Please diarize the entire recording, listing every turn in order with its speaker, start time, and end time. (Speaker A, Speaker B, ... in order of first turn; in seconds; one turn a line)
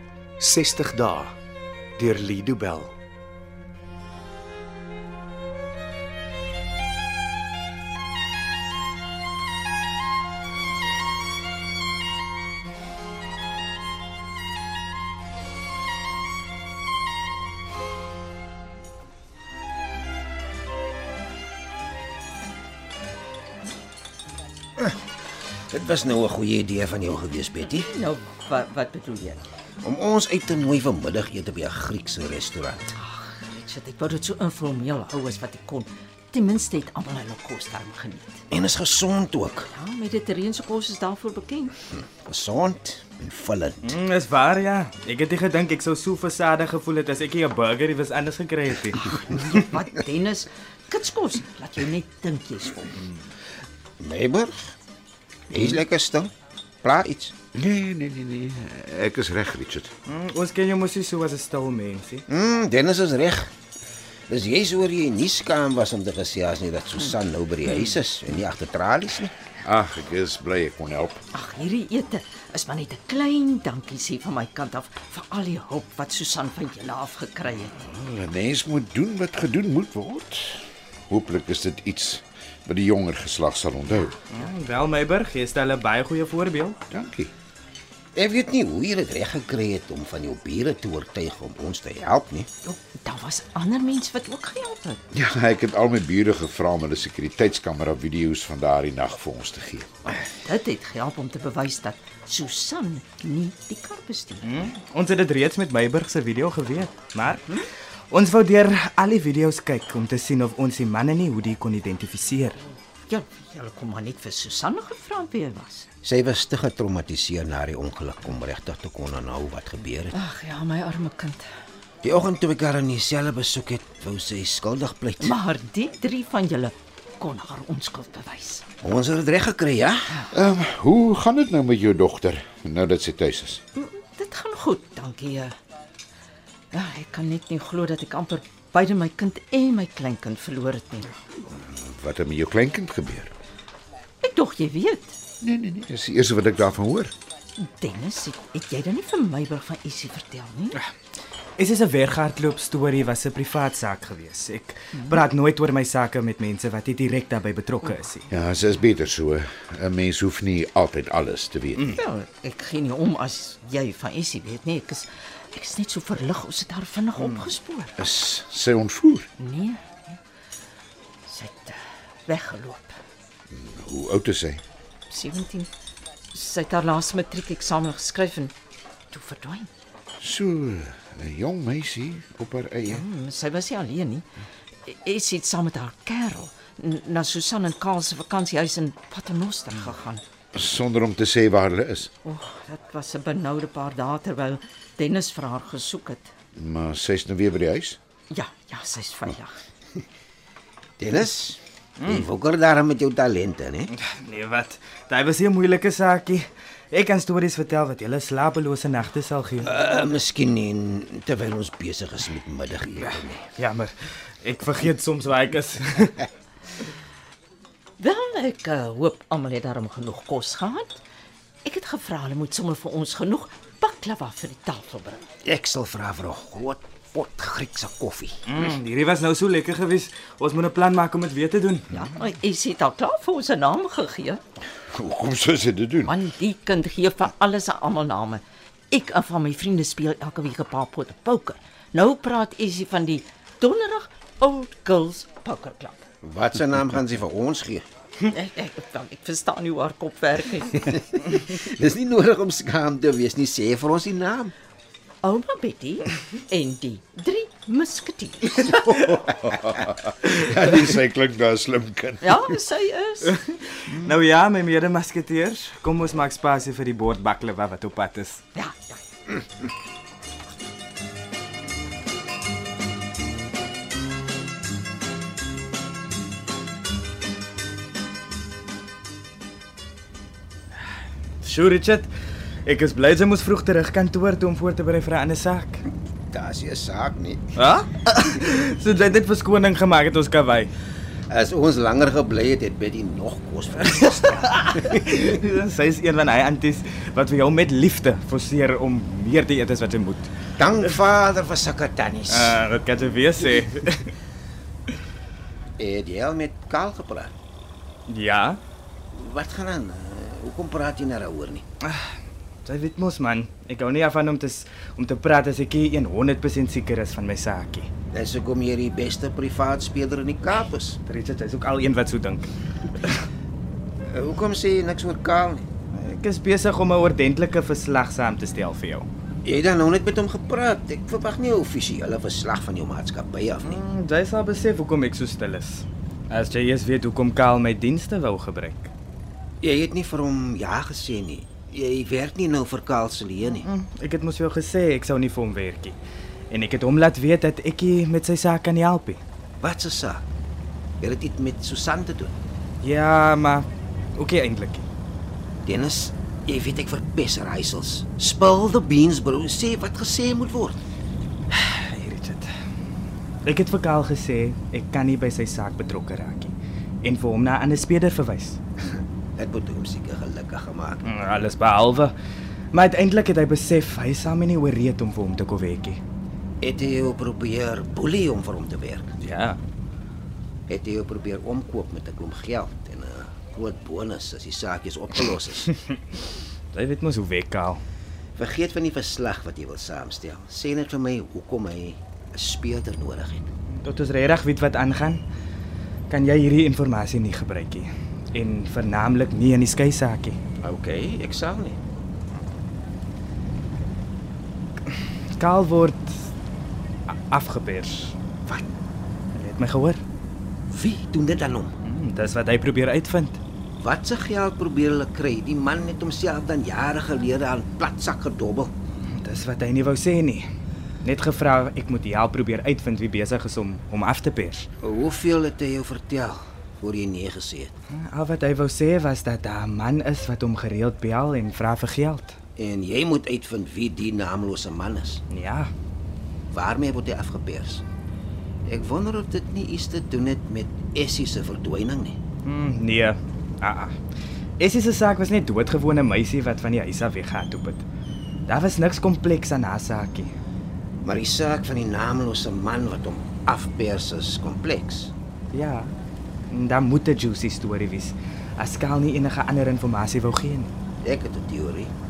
Speaker A: 0.4-1.4
Speaker A: 2.0-3.0
Speaker B: 25.7-27.9
Speaker C: 27.7-29.5
Speaker B: 29.8-33.0
Speaker C: 33.0-38.4
Speaker B: 38.5-39.7
Speaker C: 39.7-41.8
Speaker B: 42.2-44.0
Speaker D: 43.8-49.4
Speaker C: 49.0-53.0
Speaker B: 54.0-54.8
Speaker B: 55.5-56.3
Speaker B: 56.8-57.4
Speaker E: 57.5-59.9
Speaker D: 60.1-62.2
Speaker B: 62.3-63.5
Speaker B: 64.3-69.3
Speaker E: 69.6-71.2
Speaker C: 71.3-77.8
Speaker E: 77.7-84.2
Speaker D: 84.3-86.8
Speaker E: 86.9-87.3
Speaker B: 88.2-92.5
Speaker C: 92.6-95.0
Speaker E: 95.1-99.9
Speaker C: 100.3-104.7
Speaker D: 104.5-107.6
Speaker D: 108.1-112.6
Speaker C: 113.1-115.9
Speaker B: 116.0-120.2
Speaker C: 120.1-121.5
Speaker B: 122.0-125.4
Speaker C: 125.2-128.6
Speaker B: 128.8-130.2
Speaker E: 130.3-133.6
Speaker C: 133.8-135.6
Speaker C: 136.7-141.2
Speaker E: 141.5-143.3
Speaker C: 144.2-145.2
Speaker E: 145.4-147.1
Speaker C: 147.6-150.8
Speaker D: 151.6-158.3
Speaker C: 155.0-155.2
Speaker E: 158.3-162.0
Speaker C: 162.0-168.1
Speaker E: 168.0-169.3
Speaker C: 169.4-170.2
Speaker C: 171.3-173.0
Speaker E: 173.5-174.6
Speaker C: 175.1-175.7
Speaker C: 176.3-178.5
Speaker C: 179.1-179.7
Speaker E: 180.2-183.1
Speaker C: 182.9-184.3
Speaker C: 184.9-190.2
Speaker E: 190.5-192.1
Speaker C: 192.2-196.3
Speaker E: 196.6-198.0
Speaker C: 198.3-199.6
Speaker B: 201.0-203.9
Speaker D: 202.0-202.3
Speaker D: 204.0-209.8
Speaker B: 209.6-213.5
Speaker D: 213.6-216.2
Speaker C: 218.0-221.0
Speaker C: 221.7-225.3
Speaker B: 225.4-228.4
Speaker D: 228.5-231.9
Speaker C: 231.9-234.4
Speaker E: 234.9-236.1
Speaker C: 236.0-246.0
Speaker B: 246.2-247.8
Speaker C: 248.3-251.1
Speaker B: 250.9-254.5
Speaker C: 255.2-258.8
Speaker E: 258.7-262.4
Speaker C: 262.2-263.3
Speaker D: 263.3-268.4
Speaker C: 268.6-269.0
Speaker D: 281.4-282.1
Speaker D: 282.6-285.8
Speaker B: 286.3-287.5
Speaker D: 287.6-290.7
Speaker B: 291.3-294.9
Speaker D: 294.6-300.4
Speaker B: 300.6-302.6
Speaker D: 302.3-304.1
Speaker B: 305.8-307.3
Speaker D: 308.1-308.6
Speaker B: 309.1-311.6
Speaker D: 311.8-317.9
Speaker B: 318.1-321.0
Speaker D: 321.1-322.5
Speaker B: 324.1-325.6
Speaker D: 325.9-329.1
Speaker B: 329.4-333.8
Speaker D: 333.6-338.9
Speaker B: 339.6-343.7
Speaker D: 343.5-346.0
Speaker D: 346.5-349.2
Speaker B: 349.6-350.2
Speaker B: 351.0-352.3
Speaker D: 352.8-354.9
Speaker B: 355.7-360.8
Speaker D: 361.5-362.5
Speaker D: 363.4-368.6
Speaker B: 369.4-371.1
Speaker D: 371.0-372.1
Speaker D: 372.7-376.0
Speaker B: 376.6-379.2
Speaker D: 379.2-379.6
Speaker B: 380.7-385.7
Speaker D: 386.7-387.8
Speaker B: 388.4-393.5
Speaker D: 393.8-395.2
Speaker D: 396.1-400.4
Speaker B: 400.6-401.8
Speaker D: 405.3-406.3
Speaker D: 407.1-408.7
Speaker D: 409.3-410.0
Speaker B: 410.7-411.7
Speaker D: 411.8-413.4
Speaker B: 413.8-418.7
Speaker D: 419.1-420.4
Speaker D: 421.0-424.7
Speaker B: 424.8-427.7
Speaker D: 427.9-432.4
Speaker B: 432.6-435.2
Speaker D: 435.3-435.7
Speaker B: 436.5-437.8
Speaker B: 438.6-442.2
Speaker D: 442.4-444.0
Speaker D: 444.6-447.9
Speaker D: 448.5-450.3
Speaker B: 451.0-455.1
Speaker D: 455.5-455.9
Speaker D: 456.5-460.7
Speaker B: 461.0-461.9